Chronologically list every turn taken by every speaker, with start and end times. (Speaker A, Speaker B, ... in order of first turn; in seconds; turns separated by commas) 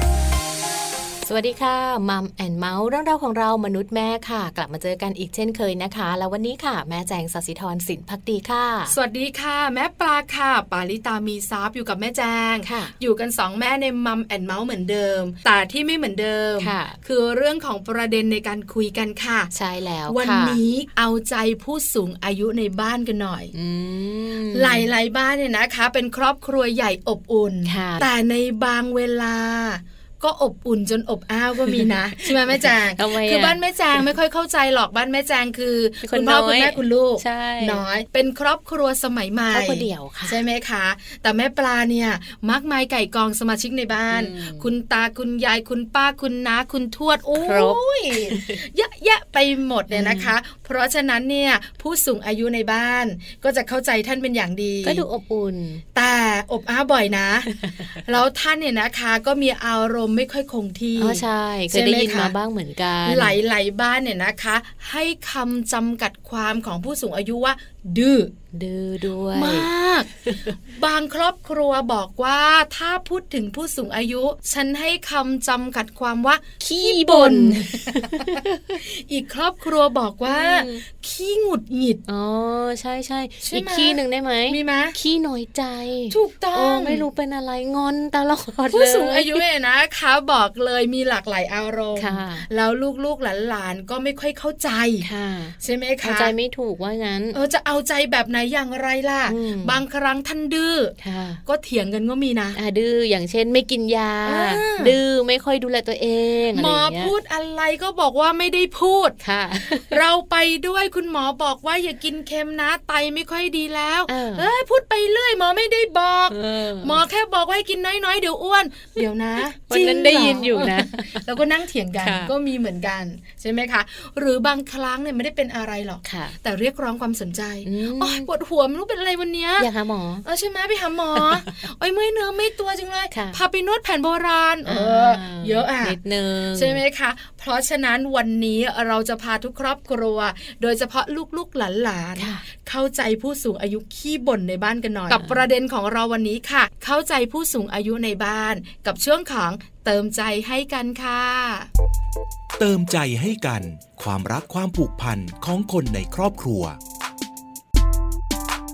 Speaker A: 1.2-9.0, Speaker B: 8.9-19.5, Speaker A: 12.6-12.9, Speaker A: 16.6-17.0, Speaker A: 19.5-20.6, Speaker B: 20.1-23.5, Speaker A: 23.5-24.9, Speaker B: 24.5-55.0, Speaker A: 27.7-28.1, Speaker A: 31.7-34.0, Speaker A: 36.0-37.8, Speaker A: 39.5-40.4, Speaker A: 44.1-44.7, Speaker A: 47.4-48.6, Speaker A: 49.9-50.3, Speaker A: 54.8-55.8, Speaker B: 56.0-62.3, Speaker A: 57.5-57.9, Speaker A: 61.0-63.4, Speaker B: 63.0-68.3, Speaker A: 68.5-69.7, Speaker B: 69.3-70.1, Speaker A: 70.2-70.5, Speaker B: 70.7-82.0, Speaker A: 76.6-78.8, Speaker A: 80.3-80.8, Speaker A: 82.1-89.4, Speaker B: 83.4-85.0, Speaker B: 86.1-87.1, Speaker B: 88.7-95.1, Speaker A: 92.0-92.5, Speaker A: 95.0-97.4, Speaker B: 95.6-96.3, Speaker B: 97.3-101.0, Speaker A: 99.3-99.8, Speaker A: 101.0-101.4, Speaker B: 101.5-102.6, Speaker A: 102.5-107.1, Speaker B: 104.2-105.0, Speaker B: 106.5-109.2, Speaker A: 109.2-110.0, Speaker B: 109.9-129.7, Speaker A: 114.1-114.5, Speaker A: 116.3-117.0, Speaker A: 119.7-121.2, Speaker A: 122.0-122.3, Speaker A: 126.0-126.4, Speaker A: 127.7-128.3, Speaker A: 129.6-130.2, Speaker B: 130.2-136.0, Speaker A: 133.1-133.4, Speaker A: 134.7-136.8, Speaker B: 136.6-151.7, Speaker A: 142.2-142.4, Speaker A: 145.1-145.4, Speaker C: 152.6-156.8